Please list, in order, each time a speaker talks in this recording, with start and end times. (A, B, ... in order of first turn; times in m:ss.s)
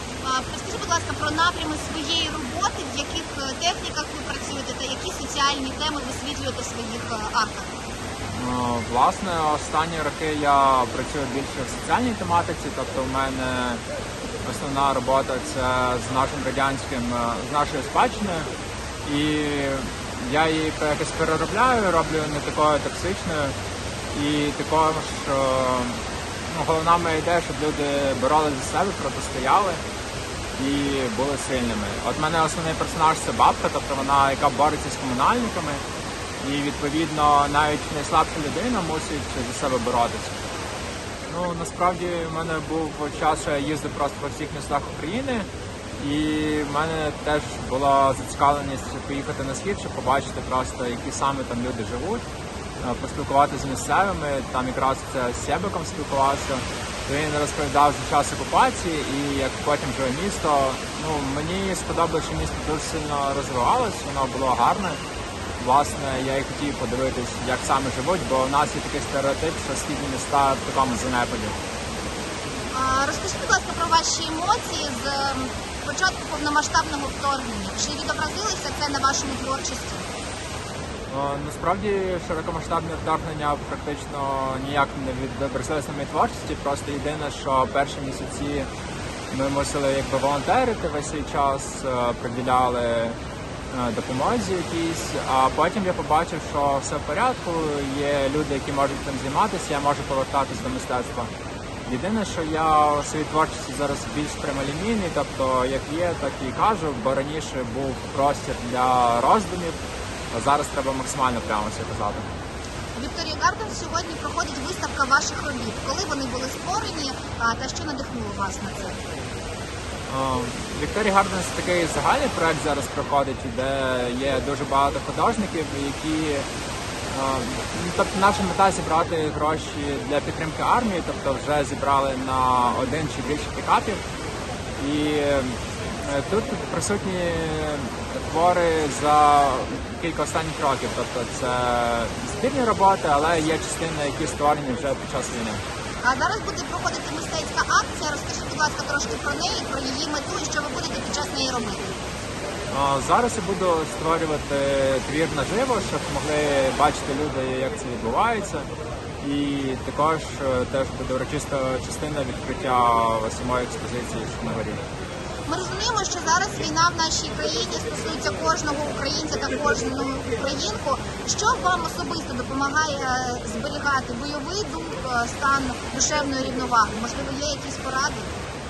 0:00.2-0:07.7 A
0:08.3-0:13.8 B
0:14.4-0:18.5 B
0:19.0-0:23.6 B
0:24.1-0:29.8 B
0:30.6-0:35.8 B
0:36.4-0:40.4 B
0:41.3-0:45.5 B
0:46.0-0:52.2 B
0:52.8-1:05.0 B
1:05.6-1:11.6 B
1:12.7-1:20.1 A
1:21.1-1:28.7 B
1:29.3-1:33.2 B
1:33.7-1:41.3 B
1:41.8-1:49.8 B
1:50.3-1:52.3 B
1:52.9-1:59.0 A
2:00.1-2:06.5 B
2:07.1-2:14.0 B
2:14.8-2:25.6 B
2:26.0-2:31.9 A
2:32.7-2:38.7 B
2:39.2-2:44.8 B
2:45.5-2:58.3 A